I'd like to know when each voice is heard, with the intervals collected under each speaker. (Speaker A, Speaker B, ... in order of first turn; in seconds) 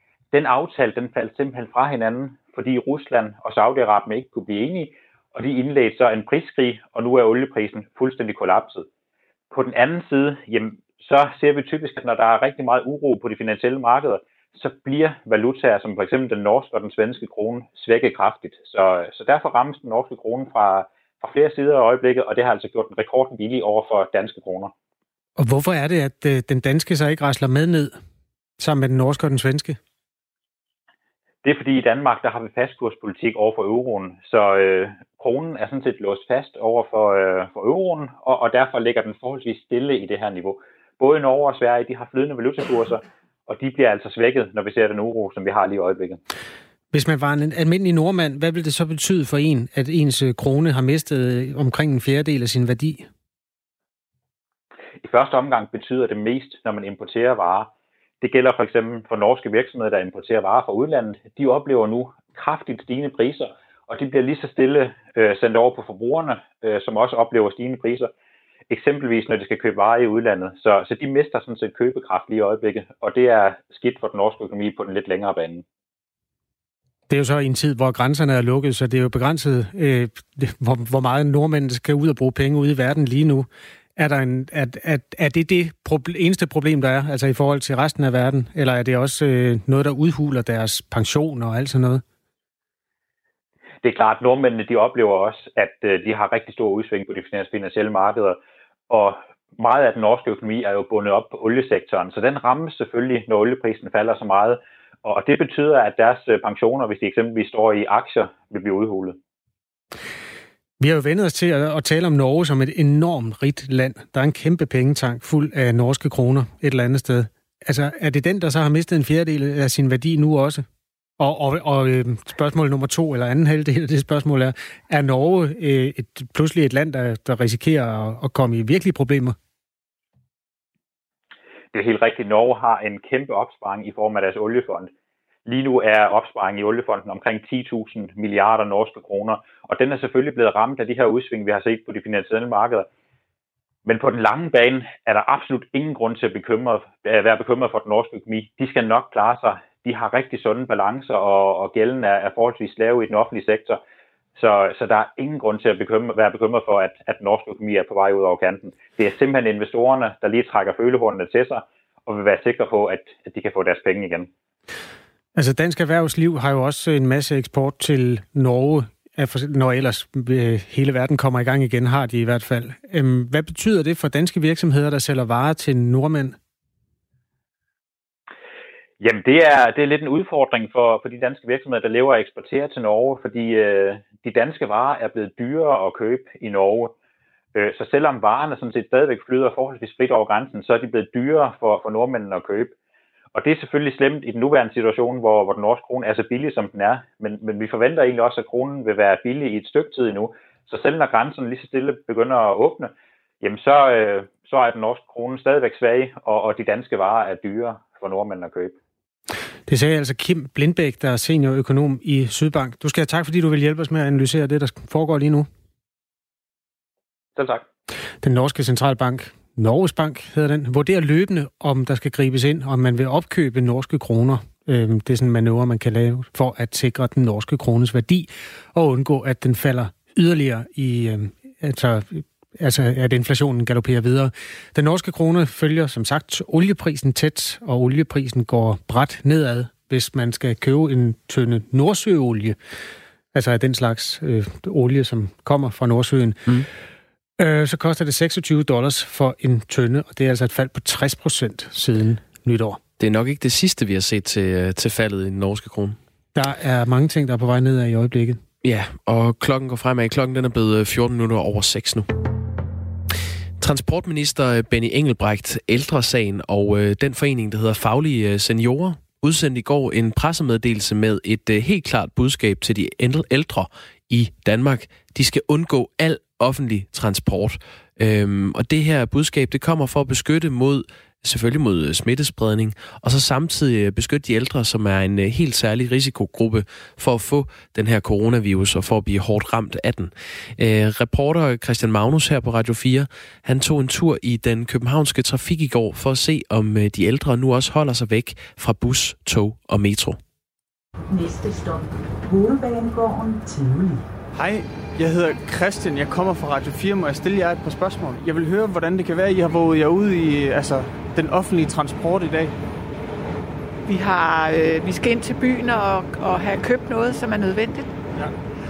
Speaker A: 0.3-8.8, 9.5-24.7, 31.4-46.2, 55.0-68.1, 68.7-75.6, 93.8-98.4, 98.9-109.2, 131.7-134.9, 135.4-142.9, 143.8-153.8, 154.3-164.3, 179.0-186.9, 187.5-192.7, 193.3-208.7, 217.3-217.6
Speaker B: 25.4-27.9, 28.6-29.8, 46.9-53.0, 77.1-92.0, 110.8-120.6, 121.2-129.3, 165.3-176.3, 209.7-215.5, 218.2-242.6, 243.3-246.5, 247.4-252.8, 256.3-258.4
Speaker C: 253.0-256.0, 258.6-262.1, 263.6-300.2
Speaker D: 301.1-304.0
Speaker E: 304.3-312.5
Speaker F: 313.9-317.9